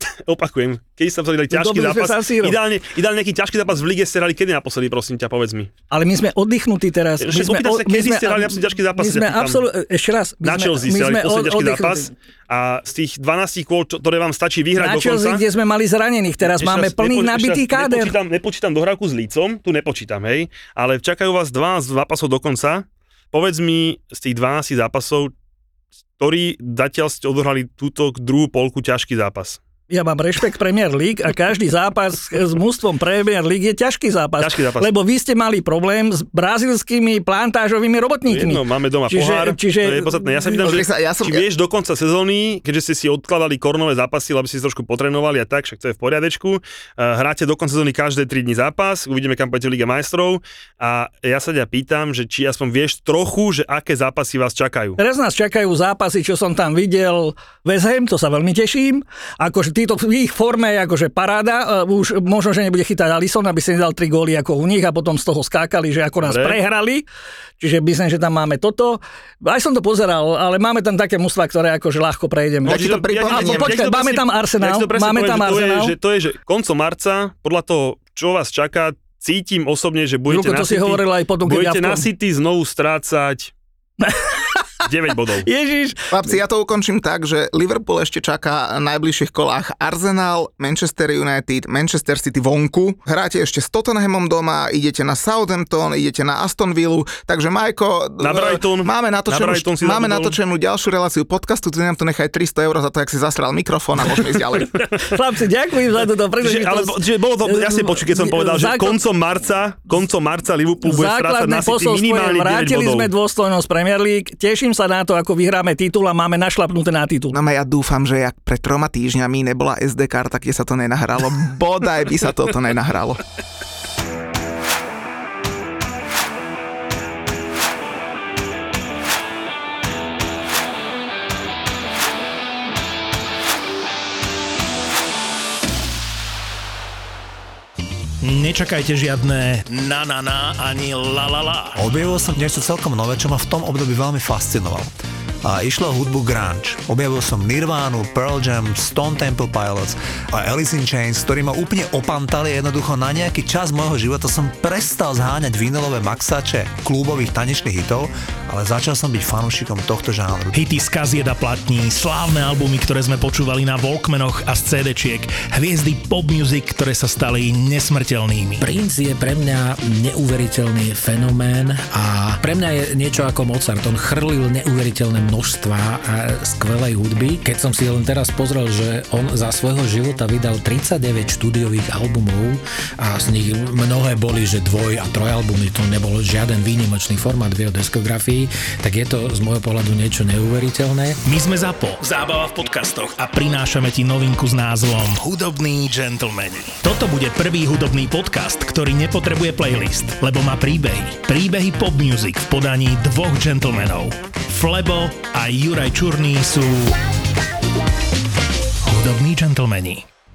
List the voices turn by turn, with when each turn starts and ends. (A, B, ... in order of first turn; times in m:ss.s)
0:00.3-0:05.7 A
0:01.5-0:02.6 B
0:05.9-0:12.1 B
0:07.2-0:09.6 A
0:10.4-0:15.4 A
0:14.8-0:18.1 B
0:16.5-0:25.3 A
0:26.2-0:29.6 A
0:29.9-0:40.6 B
0:34.4-0:34.9 A
0:38.3-0:55.0 A
0:40.6-0:41.4 C
0:55.0-1:07.1 B
1:06.2-1:06.6 A
1:07.6-1:15.9 B
1:12.6-1:13.8 C
1:12.7-1:23.5 A
1:20.3-1:22.0 B
1:24.0-1:26.1 B
1:24.9-1:25.5 A
1:26.1-1:44.7 C
1:38.2-1:40.4 A
1:44.9-1:49.0 B
1:46.4-1:53.1 A
1:50.8-1:57.4 B
1:57.3-2:03.2 C
2:18.2-2:21.8 D
2:21.8-2:40.6 E
2:40.5-2:48.7 D
2:48.6-3:11.2 F
3:11.2-3:27.0 D
3:28.8-3:30.0 D